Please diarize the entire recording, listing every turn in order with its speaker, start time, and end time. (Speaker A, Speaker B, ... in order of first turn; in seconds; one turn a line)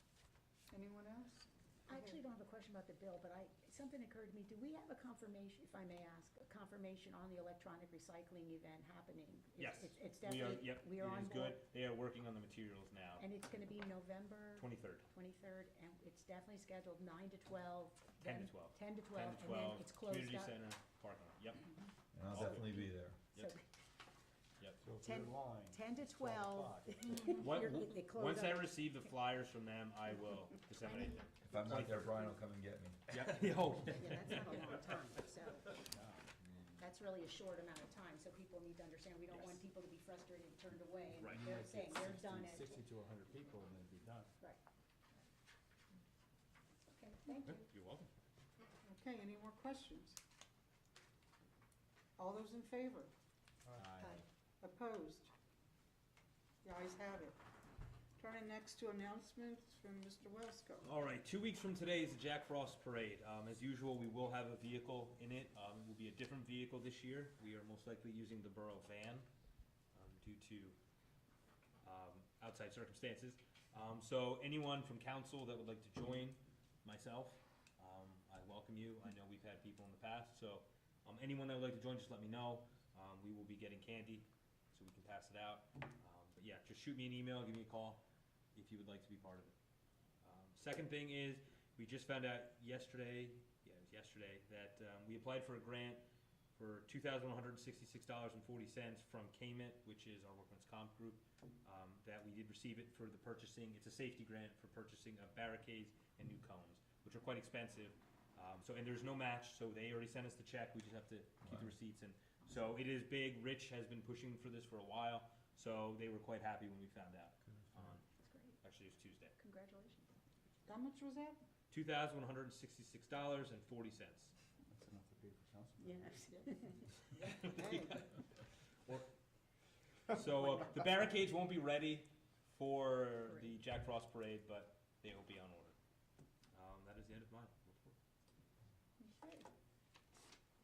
Speaker A: 0.7-2.2
Speaker B: 1.9-11.6
Speaker C: 9.6-13.3
Speaker B: 13.2-20.6
Speaker C: 14.6-15.1
Speaker C: 18.2-21.7
Speaker D: 22.1-23.2
Speaker C: 22.3-23.5
Speaker B: 23.3-23.6
Speaker E: 24.8-27.4
Speaker B: 25.0-29.0
Speaker C: 27.3-32.4
Speaker B: 30.8-31.2
Speaker D: 31.4-33.1
Speaker C: 33.1-34.8
Speaker B: 33.8-35.8
Speaker E: 35.9-36.8
Speaker B: 36.8-42.8
Speaker C: 39.3-39.6
Speaker C: 41.2-41.5
Speaker E: 41.3-44.3
Speaker B: 46.8-47.7
Speaker C: 47.4-48.1
Speaker A: 48.8-50.2
Speaker A: 52.2-53.1
Speaker E: 53.7-54.2
Speaker C: 53.8-54.2
Speaker A: 54.1-55.3
Speaker A: 56.6-57.4
Speaker A: 58.2-60.9
Speaker C: 60.8-69.3
Speaker C: 69.9-70.8
Speaker C: 71.8-88.0
Speaker C: 88.5-89.5
Speaker C: 90.2-96.0
Speaker C: 96.5-118.0
Speaker D: 111.4-111.7
Speaker D: 117.4-118.0
Speaker B: 118.2-118.6
Speaker C: 118.6-119.3
Speaker B: 119.4-120.1
Speaker A: 120.7-121.4
Speaker C: 121.7-124.3
Speaker E: 124.7-126.3
Speaker B: 125.8-127.0
Speaker C: 127.1-128.1
Speaker A: 127.1-128.0
Speaker C: 130.1-135.8
Speaker C: 136.5-137.9
Speaker A: 139.0-139.5